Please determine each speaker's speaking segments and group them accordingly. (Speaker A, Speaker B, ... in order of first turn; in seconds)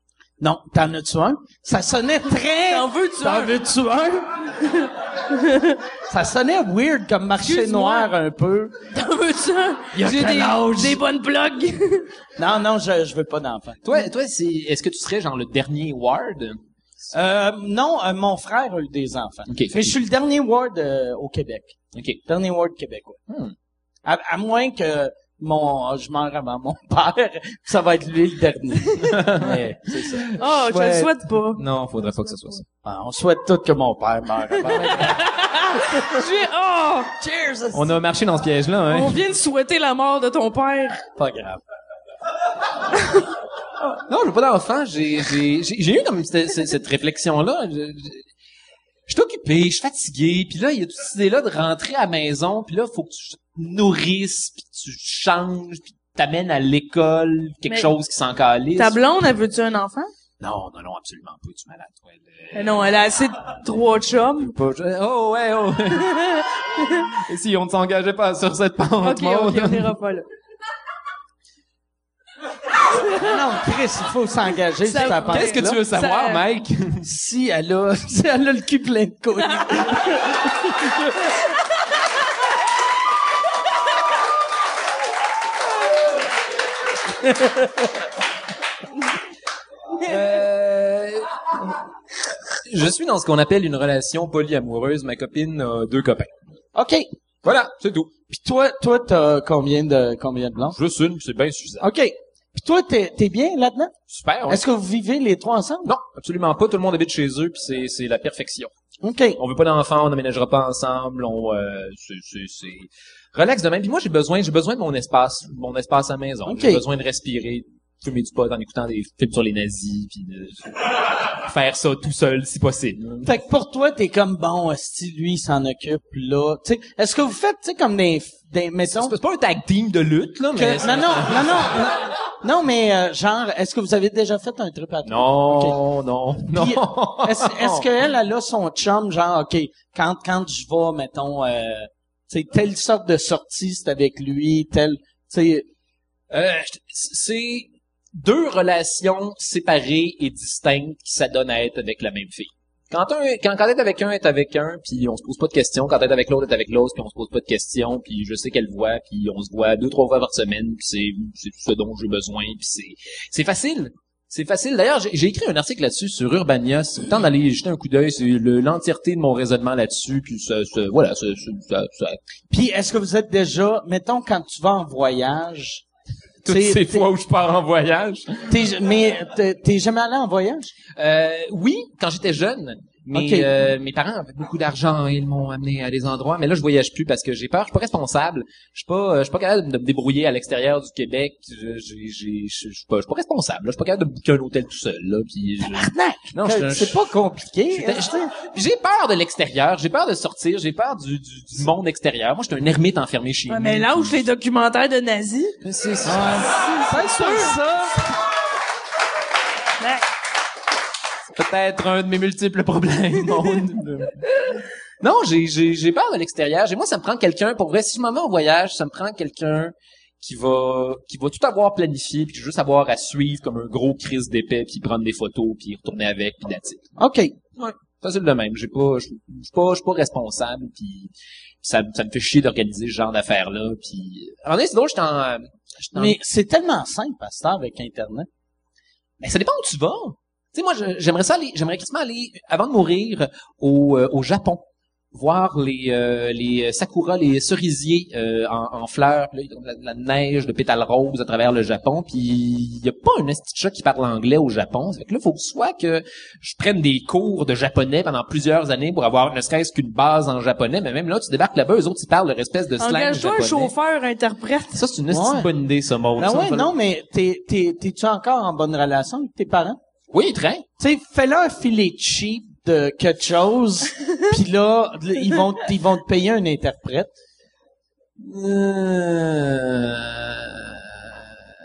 Speaker A: 0.4-4.5, 6.1-8.8, 9.9-11.0, 12.4-13.9, 17.1-23.2, 24.1-30.3, 32.8-36.2, 37.2-38.0, 41.2-41.6, 73.2-75.8, 77.0-80.2, 87.3-87.7, 96.8-97.1, 98.3-100.8, 101.8-103.9, 104.5-106.0, 109.0-109.4, 116.5-116.8, 123.2-129.2, 130.5-135.8, 136.5-145.7, 172.5-175.8, 176.5-177.1, 178.5-180.7, 183.1-183.5, 195.7-198.3, 206.1-207.9, 227.0-227.3, 235.9-238.3, 265.1-265.5, 266.2-269.8, 270.8-277.1
Speaker B: 2.7-3.5, 5.3-5.8, 7.4-8.1, 8.9-12.1, 30.4-31.6, 34.7-37.1, 38.9-41.1, 58.8-60.1, 62.5-64.5, 65.9-67.1, 69.0-70.2, 74.8-76.4, 203.5-205.6, 206.5-207.6, 209.8-210.1, 262.8-264.8
Speaker C: 13.8-16.6, 19.5-20.0, 21.9-22.2, 23.3-23.5, 29.0-32.6, 37.7-39.2, 44.1-48.3, 49.1-59.0, 60.4-62.8, 64.4-66.4, 67.0-69.9, 75.3-77.1, 90.0-91.7, 92.5-96.3, 97.4-98.1, 100.7-101.8, 104.1-104.6, 105.8-108.7, 109.4-123.3, 128.9-131.9, 135.0-137.9, 146.3-172.2, 176.4-178.6, 180.9-197.1, 197.7-204.3, 205.6-206.4, 211.3-214.2, 215.0-226.9, 227.6-236.2, 239.2-263.7, 264.7-266.7, 270.1-270.7, 278.2-281.4